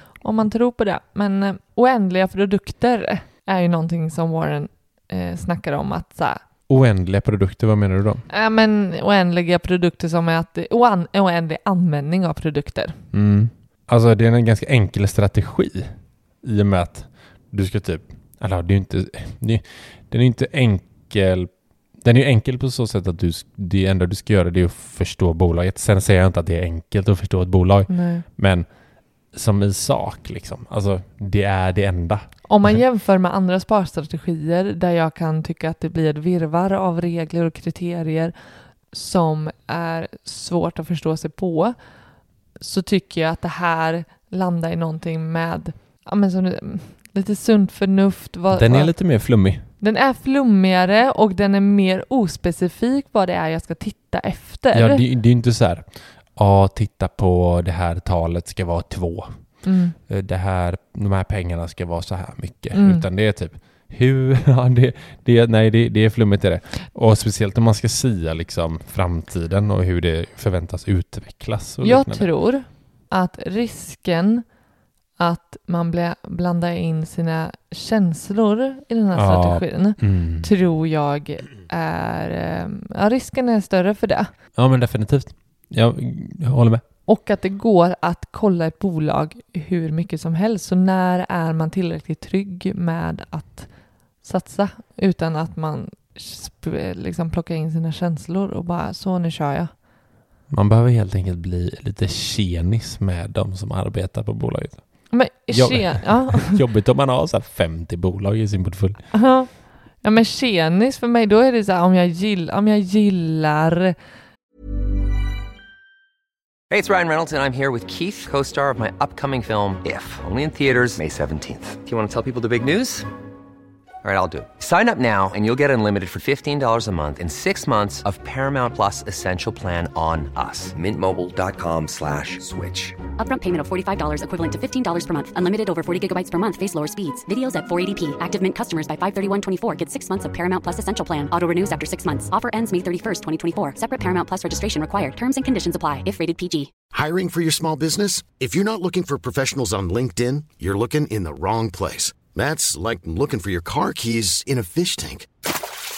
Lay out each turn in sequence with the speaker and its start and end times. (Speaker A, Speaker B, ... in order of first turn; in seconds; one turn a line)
Speaker A: 0.2-6.4
Speaker B: 6.7-8.2
Speaker A: 8.3-13.0
Speaker B: 13.1-28.7
Speaker A: 27.9-28.2
Speaker B: 29.3-32.8
Speaker A: 32.5-38.3
Speaker A: 38.9-41.8
Speaker A: 42.6-48.9
Speaker B: 48.5-49.6
Speaker A: 49.8-55.0
Speaker B: 54.7-72.3
Speaker A: 59.6-60.0
Speaker A: 62.7-63.1
Speaker A: 71.8-74.5
Speaker A: 75.2-84.3
Speaker B: 79.1-80.5
Speaker B: 84.6-86.8
Speaker A: 87.1-93.7
Speaker A: 94.2-99.7
Speaker B: 100.5-109.0
Speaker A: 105.1-106.6
Speaker A: 109.1-114.0
Speaker C: 116.7-123.1
Speaker C: 124.0-133.0
Speaker D: 133.2-146.7
Speaker E: 146.9-155.3